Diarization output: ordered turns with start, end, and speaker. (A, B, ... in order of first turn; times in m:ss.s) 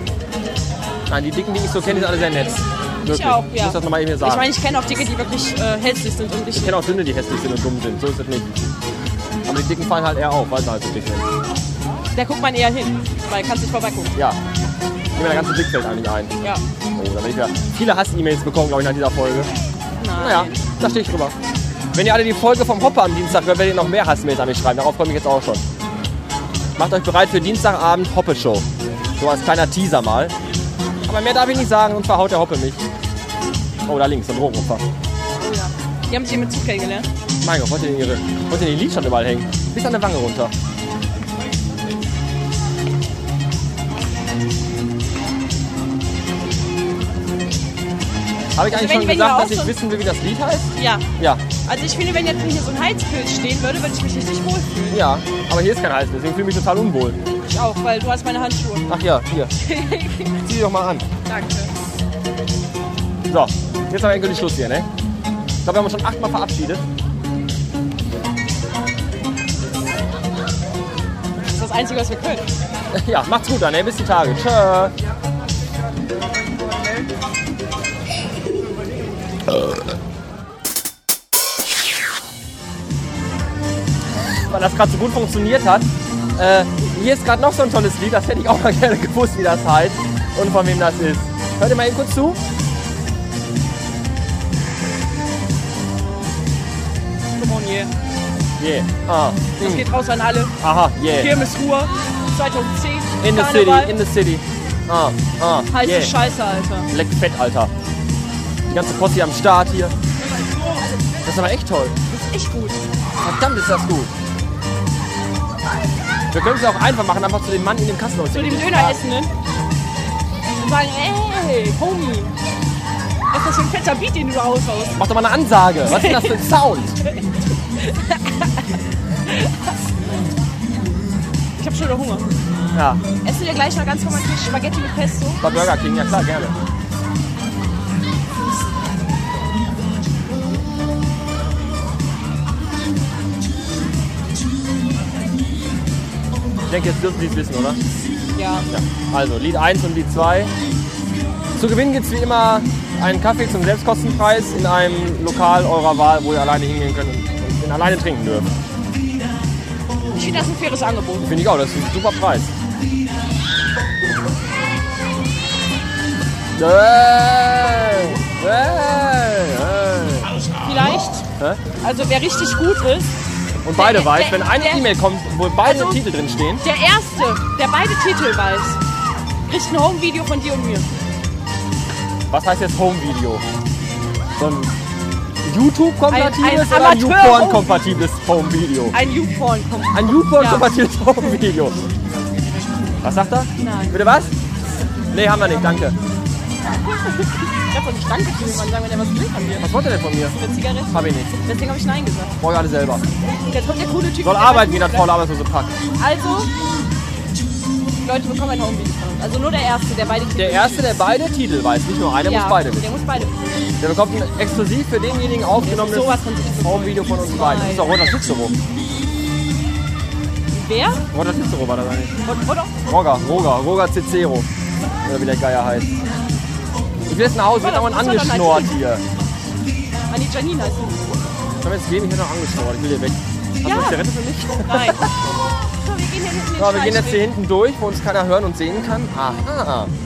0:01.1-0:04.5 A
0:03.0-0:06.8 B
0:06.5-0:08.5 A
0:09.4-0:11.2 A
0:12.1-0:14.1 B
0:15.2-0:16.3 A
0:17.0-0:19.5 A
0:20.0-0:20.5 B
0:20.2-0:21.3 A
0:21.9-0:25.6 A
0:26.8-0:28.6 A
0:29.2-0:30.3 A
0:31.0-0:32.8 A
0:33.8-0:34.8 A
0:35.4-0:37.1 B
0:37.4-0:40.5 A
0:48.6-0:51.4 A
0:48.7-0:49.7 B
0:50.8-0:51.0 B
0:51.6-0:55.0 B
0:54.9-0:57.2 A
0:57.4-0:58.9 B
0:58.9-0:59.5 A
0:59.6-1:00.4 B
1:00.4-1:01.0 A
1:01.2-1:01.7 B
1:03.3-1:04.9 A
1:05.6-1:06.8 A
1:11.5-1:12.4 B
1:12.9-1:14.9 A
1:24.3-1:32.4 A
1:37.4-1:37.9 B
1:38.6-1:39.8 A
1:39.6-1:40.5 B
1:40.6-1:41.3 A
1:41.1-1:44.0 B
1:43.2-1:46.1 A
1:45.7-1:46.9 B
1:46.9-1:47.7 A
1:48.7-1:49.9 A
1:50.2-1:51.0 B
1:51.2-1:51.9 A
1:52.1-1:52.8 B
1:53.2-1:54.1 A
1:56.3-1:59.0 A
1:58.3-1:59.3 B
2:00.6-2:02.3 B
2:03.3-2:05.0 B
2:05.0-2:07.0 A
2:05.9-2:06.4 B
2:07.8-2:08.6 B
2:09.3-2:09.5 B
2:11.6-2:12.3 B
2:12.7-2:13.0 A
2:13.2-2:15.4 B
2:15.4-2:16.6 A
2:26.7-2:27.8 A
2:28.3-2:28.7 B
2:28.7-2:30.5 A
2:31.6-2:38.5 A
2:40.1-2:41.3 B
2:41.2-2:42.5 A
2:46.5-2:50.3 A
2:50.6-2:51.2 B
2:51.8-2:53.1 B
2:53.6-2:56.6 A
2:53.7-2:54.9 B
2:55.6-2:56.0 B
2:56.6-2:58.8 B
2:59.5-3:00.9 B
3:02.3-3:03.4 A
3:04.4-3:04.7 A
3:05.4-3:08.9 A
3:06.1-3:07.8 B
3:08.9-3:10.7 B
3:09.9-3:11.8 A
3:13.0-3:14.3 A
3:13.6-3:14.0 B
3:15.1-3:16.0 A
3:16.8-3:19.7 B
3:19.6-3:20.3 A
3:20.3-3:22.3 B
3:20.9-3:21.3 A
3:22.4-3:23.0 A
3:23.5-3:25.1 B
3:24.2-3:25.7 A
3:26.0-3:26.5 B
3:28.0-3:31.1 B
3:30.4-3:32.9 A
3:32.2-3:33.3 B
3:33.8-3:38.5 A
3:35.6-3:38.0 B
3:40.5-3:41.0 B
3:41.1-3:42.2 A
3:42.2-3:42.8 B
3:42.9-3:44.5 A
3:45.0-3:46.0 A
3:47.1-3:49.0 A
3:47.5-3:48.8 B
3:50.1-3:51.2 B
3:51.6-3:55.0 A
3:53.6-3:55.1 B
3:55.8-3:57.3 B
3:56.6-3:59.9 A